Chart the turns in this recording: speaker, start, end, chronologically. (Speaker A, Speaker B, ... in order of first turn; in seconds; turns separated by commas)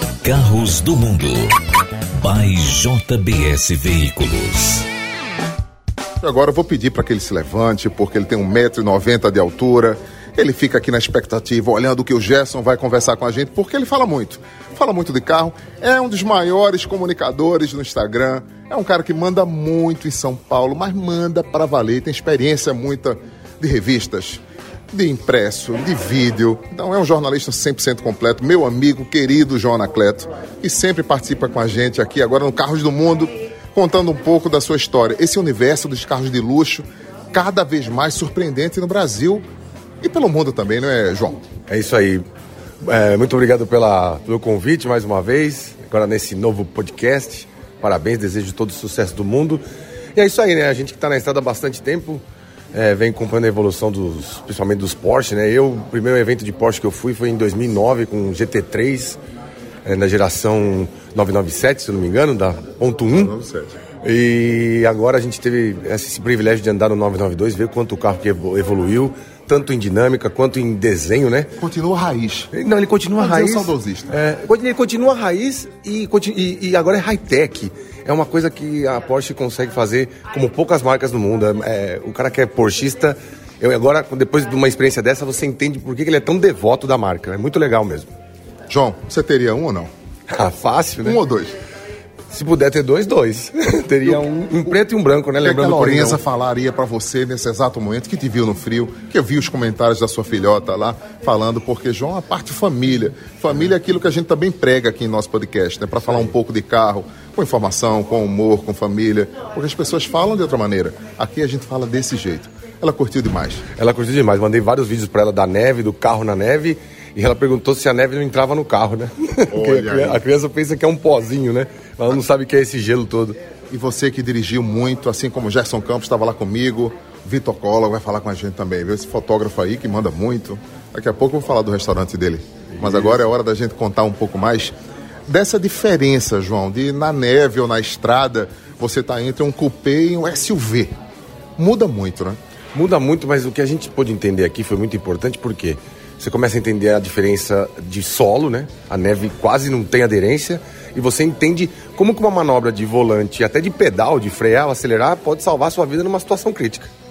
Speaker A: 0.2-1.6, Speaker A: 2.1-4.8, Speaker B: 6.2-39.4, Speaker B: 40.0-41.4, Speaker C: 41.7-42.2, Speaker C: 42.8-49.6, Speaker C: 50.1-59.2, Speaker C: 59.8-63.3, Speaker B: 63.1-63.8, Speaker C: 64.0-71.5, Speaker B: 71.6-72.5, Speaker C: 72.5-88.1, Speaker B: 73.2-74.1, Speaker B: 88.7-89.9, Speaker C: 90.3-91.2, Speaker B: 91.0-91.6, Speaker C: 92.3-96.2, Speaker B: 95.4-113.6, Speaker C: 113.8-123.4, Speaker B: 119.5-120.2, Speaker B: 123.7-134.7, Speaker C: 132.8-133.1, Speaker B: 135.3-140.9, Speaker B: 141.6-142.4, Speaker C: 142.7-156.9